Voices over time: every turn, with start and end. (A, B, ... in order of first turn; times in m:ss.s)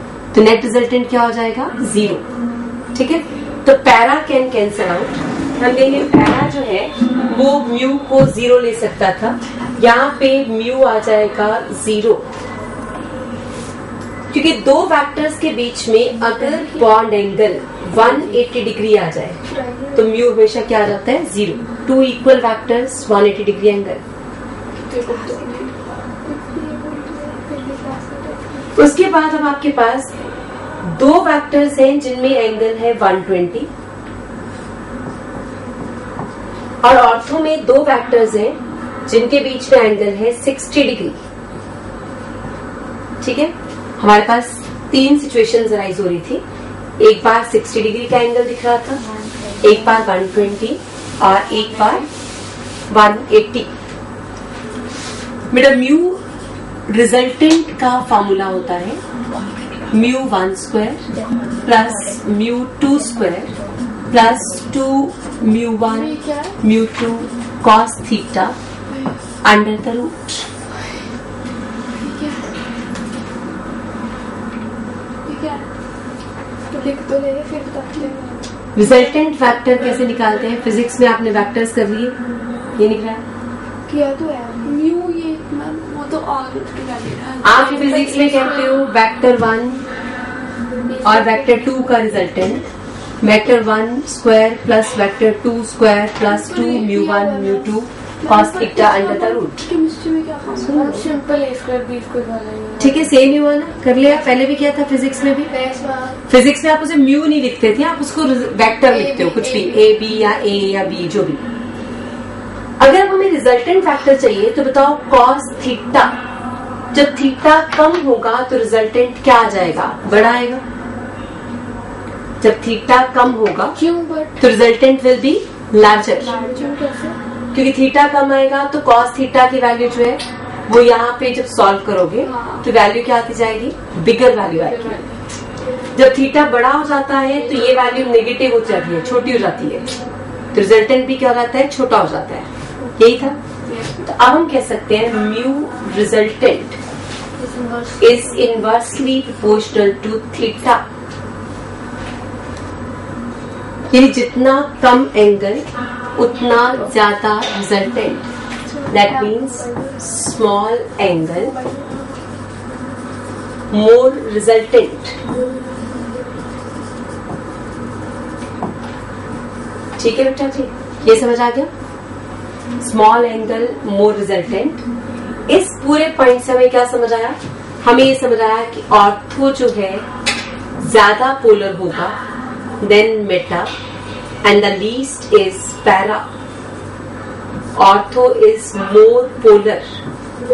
0:00.3-0:02.2 A
0:02.9-0:12.3 A
0:14.3-0:19.4 A
0:17.9-0:18.4 B
0:19.4-0:20.1 C
0:19.9-0:24.0 A
0:24.8-0:25.8 B
0:25.1-0:25.4 C
0:26.2-0:28.8 C
0:28.8-0:30.1 A
0:30.8-0:33.7 A
0:36.8-0:41.2 A
0:43.2-0:46.4 A
0:47.0-0:49.0 A
0:49.0-0:50.1 D
0:49.6-0:52.1 A
0:51.2-0:52.1 B
0:52.9-0:53.7 A
0:55.5-0:56.2 A
0:56.9-0:59.0 A
0:59.9-1:01.1 A
1:01.1-1:02.2 D
1:01.6-1:03.5 A
1:02.9-1:04.7 D
1:04.1-1:08.6 A
1:06.2-1:06.5 C
1:09.4-1:10.5 A
1:12.0-1:12.5 B
1:15.3-1:15.7 B
1:16.7-1:18.4 C
1:18.8-1:22.2 A
1:18.8-1:19.2 B
1:22.8-1:23.2 A
1:23.9-1:24.8 C
1:24.6-1:28.8 B
1:27.4-1:29.8 A
1:30.9-1:31.9 D
1:31.0-1:32.6 A
1:33.2-1:39.6 A
1:36.3-1:37.7 C
1:38.2-1:40.9 B
1:40.6-1:41.1 A
1:40.6-1:43.2 D
1:42.8-1:45.5 A
1:45.5-1:46.2 C
1:46.3-1:51.4 A
1:48.9-1:49.8 C
1:52.8-1:56.2 A
1:56.9-2:00.6 A
2:02.4-2:03.8 A
2:03.8-2:04.3 D
2:04.4-2:06.4 A
2:06.3-2:06.8 C
2:06.3-2:07.2 D
2:07.5-2:15.0 A
2:12.2-2:12.7 B
2:14.5-2:15.2 B
2:16.0-2:19.9 A
2:20.5-2:23.4 A
2:23.6-2:24.2 B
2:24.0-2:26.8 A
2:27.4-2:28.8 D
2:28.0-2:30.8 A
2:33.9-2:38.3 A
2:38.6-2:40.2 C
2:38.9-2:41.5 A
2:41.3-2:42.3 C
2:43.7-2:45.2 A
2:50.0-2:51.7 A
2:52.8-2:54.8 A
2:55.5-3:00.0 A
3:00.8-3:02.2 A
3:02.8-3:03.7 A
3:04.4-3:06.3 A
3:07.8-3:09.9 A